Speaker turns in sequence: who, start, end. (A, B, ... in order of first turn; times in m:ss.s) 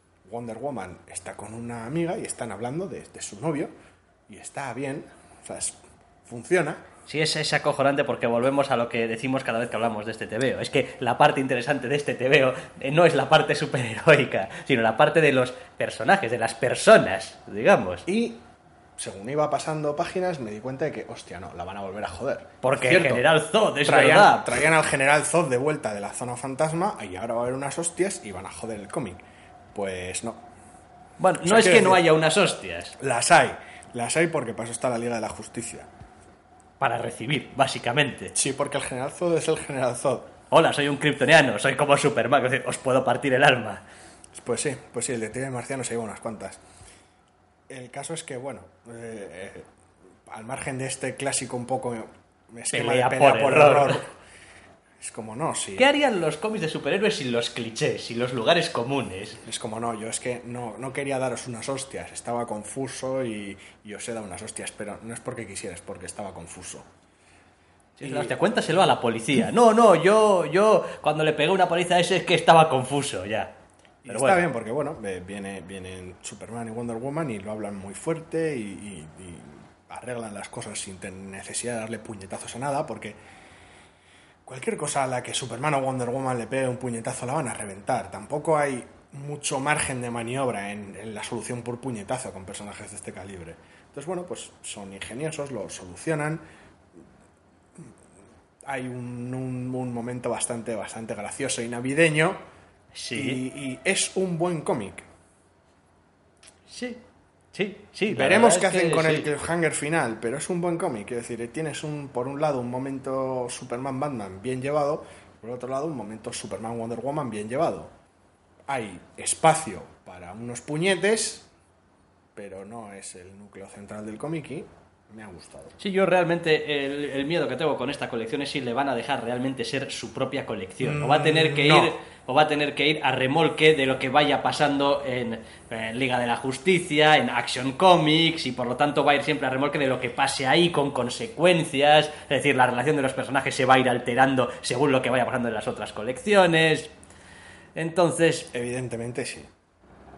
0:00.2-0:03.7 A
0:04.3-0:06.8 A
0:07.0-0:18.1 B
0:18.1-0:18.4 A
0:19.0-0:23.3 A
0:22.6-0:24.6 B
0:23.8-0:29.2 A
0:29.7-0:30.4 A
0:31.2-0:33.0 B
0:31.4-0:32.0 A
0:33.0-0:35.9 A
0:36.8-0:38.3 B
0:38.3-0:40.3 A
0:40.5-0:43.8 B
0:44.3-0:46.6 A
0:47.7-0:49.7 A
0:50.2-0:54.1 A
0:52.7-0:54.0 B
0:55.0-0:55.9 A
0:55.8-0:59.4 B
0:59.4-1:06.9 A
1:08.0-1:14.4 B
1:08.0-1:08.4 A
1:14.0-1:23.2 A
1:24.4-1:36.4 A
1:38.6-1:42.4 A
1:42.9-1:43.4 B
1:43.1-1:45.0 A
1:46.7-1:49.3 B
1:48.1-1:57.9 A
1:58.7-2:01.5 A
2:02.3-2:05.8 A
2:05.8-2:26.9 B
2:10.8-2:12.0 A
2:27.7-2:28.5 B
2:28.5-2:29.5 A